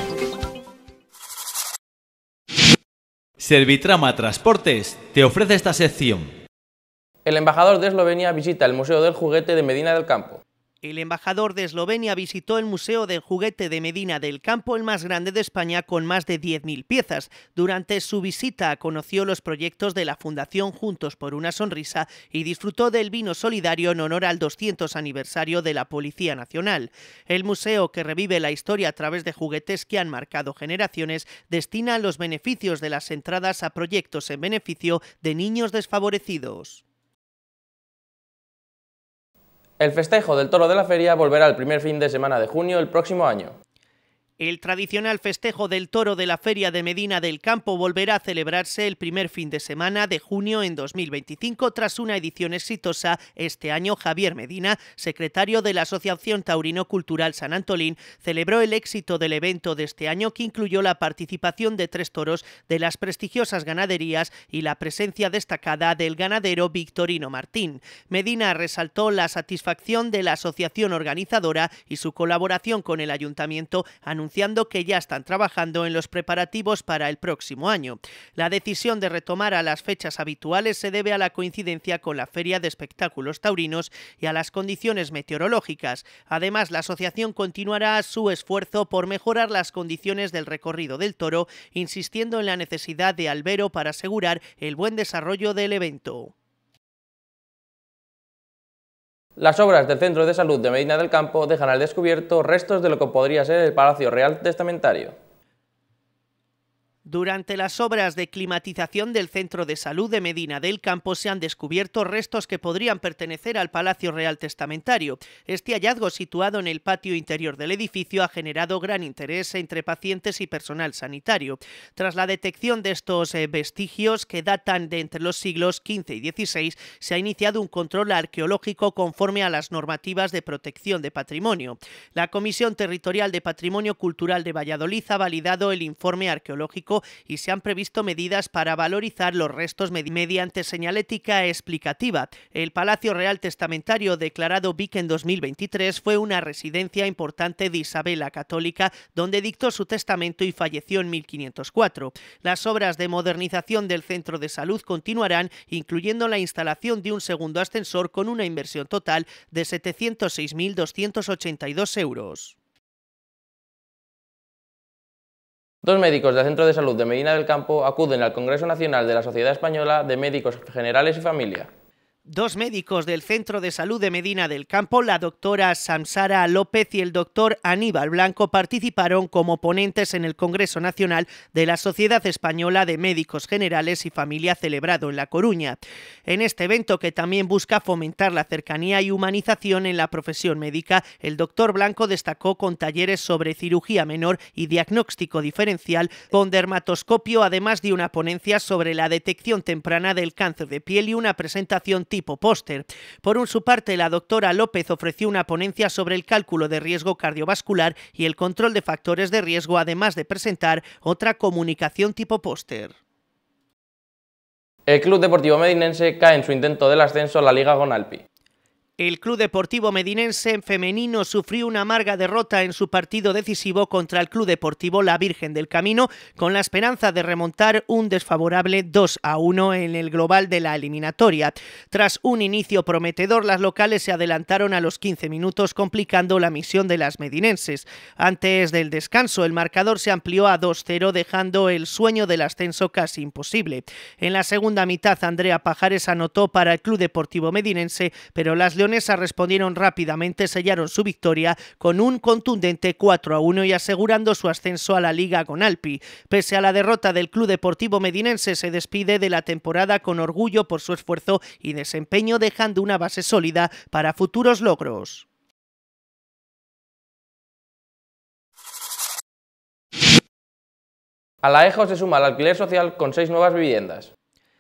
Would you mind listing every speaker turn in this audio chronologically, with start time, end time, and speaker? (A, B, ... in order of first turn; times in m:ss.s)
0:03.4-0:06.3 A
0:07.2-0:10.4 B
0:10.8-0:36.8 C
0:39.8-0:43.5 B
0:44.4-1:36.3 C
1:39.4-1:45.1 B
1:47.0-2:42.5 C
2:45.8-2:51.7 B
2:52.3-3:32.9 C
3:34.9-3:38.2 B
3:39.0-4:25.2 C
4:31.4-4:34.1 B